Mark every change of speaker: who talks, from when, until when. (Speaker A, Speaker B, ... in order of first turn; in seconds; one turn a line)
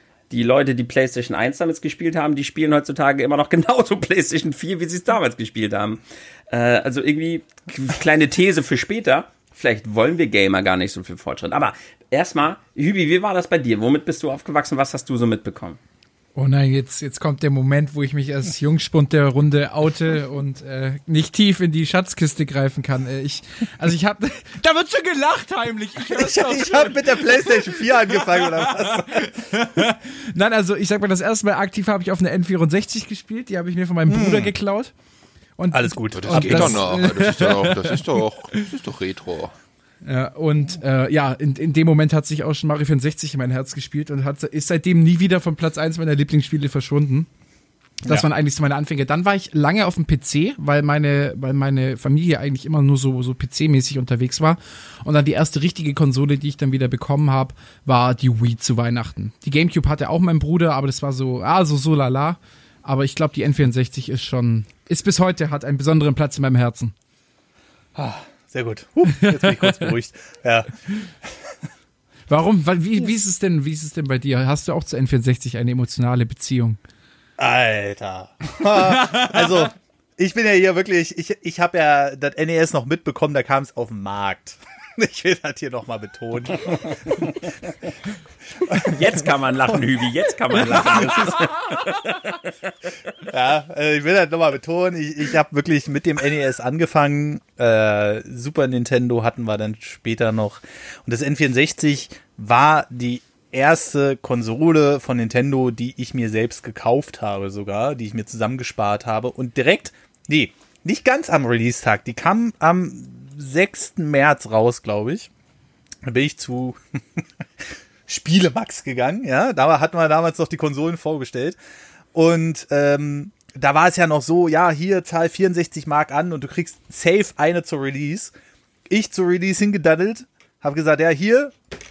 Speaker A: 0.3-15.8
Speaker B: 16.4-34.9
Speaker C: 26.1-29.6
Speaker C: 34.0-34.5
Speaker B: 35.6-38.0
Speaker C: 35.7-37.0
Speaker D: 36.1-39.5
Speaker B: 40.0-47.3
Speaker B: 48.0-66.9
Speaker C: 68.0-70.7
Speaker B: 69.2-69.9
Speaker B: 72.3-76.8
Speaker C: 77.4-87.3
Speaker B: 78.8-79.7
Speaker C: 88.6-89.0
Speaker A: 88.8-92.5
Speaker C: 90.5-91.5
Speaker C: 93.2-115.3
Speaker C: 116.0-121.6
Speaker C: 122.1-128.3
Speaker C: 128.9-131.5